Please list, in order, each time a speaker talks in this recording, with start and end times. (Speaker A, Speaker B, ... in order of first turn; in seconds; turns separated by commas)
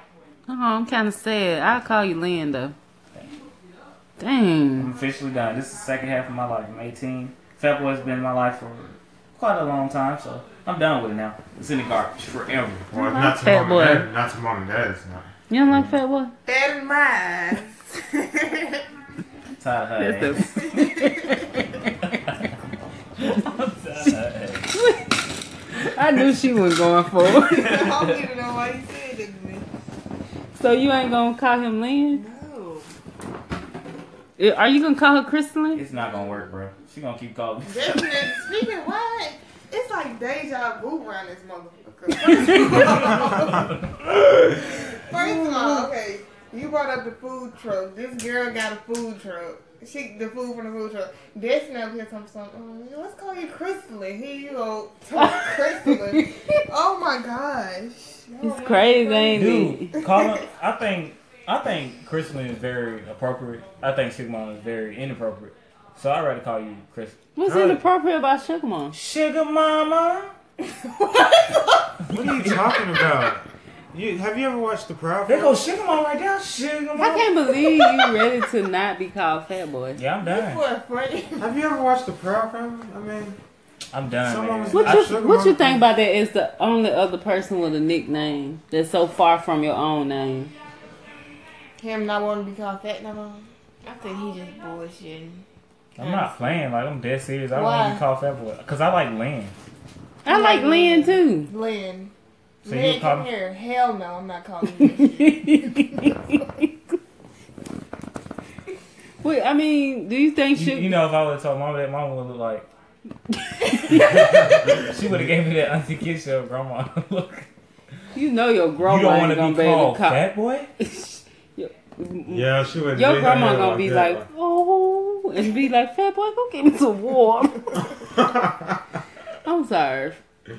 Speaker A: 0.5-2.7, Speaker A: 4.2-4.9, Speaker B: 4.8-12.9, Speaker C: 12.9-15.3, Speaker A: 12.9-14.1, Speaker A: 15.5-16.3, Speaker D: 16.4-18.8, Speaker B: 19.6-20.6, Speaker A: 20.0-21.9, Speaker D: 20.6-21.4, Speaker B: 23.2-24.7, Speaker A: 24.7-25.1, Speaker A: 25.7-28.0, Speaker D: 27.2-29.6, Speaker A: 30.6-32.2, Speaker D: 32.1-32.9, Speaker A: 34.4-35.8, Speaker B: 35.7-38.2, Speaker D: 35.9-36.5, Speaker D: 37.6-60.4, Speaker B: 42.8-43.5, Speaker A: 45.1-45.9, Speaker A: 55.1-56.3, Speaker A: 58.4-59.9, Speaker B: 59.3-67.2, Speaker A: 67.3-68.9, Speaker C: 67.5-67.8, Speaker B: 68.9-70.3, Speaker D: 70.6-71.9, Speaker B: 72.1-72.5, Speaker C: 72.1-75.7, Speaker B: 75.2-77.3, Speaker A: 76.9-80.0, Speaker D: 77.6-78.1, Speaker B: 80.0-80.6, Speaker D: 80.2-81.5, Speaker C: 81.4-83.4, Speaker B: 83.9-85.2, Speaker C: 84.2-85.8, Speaker A: 84.7-90.5, Speaker D: 91.8-95.4, Speaker B: 96.0-99.5, Speaker D: 96.0-96.7, Speaker D: 97.5-98.0, Speaker A: 100.2-101.5, Speaker D: 100.2-102.1, Speaker D: 102.6-106.4, Speaker B: 102.7-103.3, Speaker A: 104.8-106.7, Speaker A: 109.2-111.0, Speaker B: 110.5-112.7, Speaker A: 113.3-114.5, Speaker B: 113.9-117.5, Speaker C: 114.2-115.3, Speaker A: 118.1-120.2, Speaker B: 118.8-120.7, Speaker A: 120.8-127.8, Speaker C: 122.2-124.2, Speaker C: 128.0-128.8, Speaker A: 129.4-130.2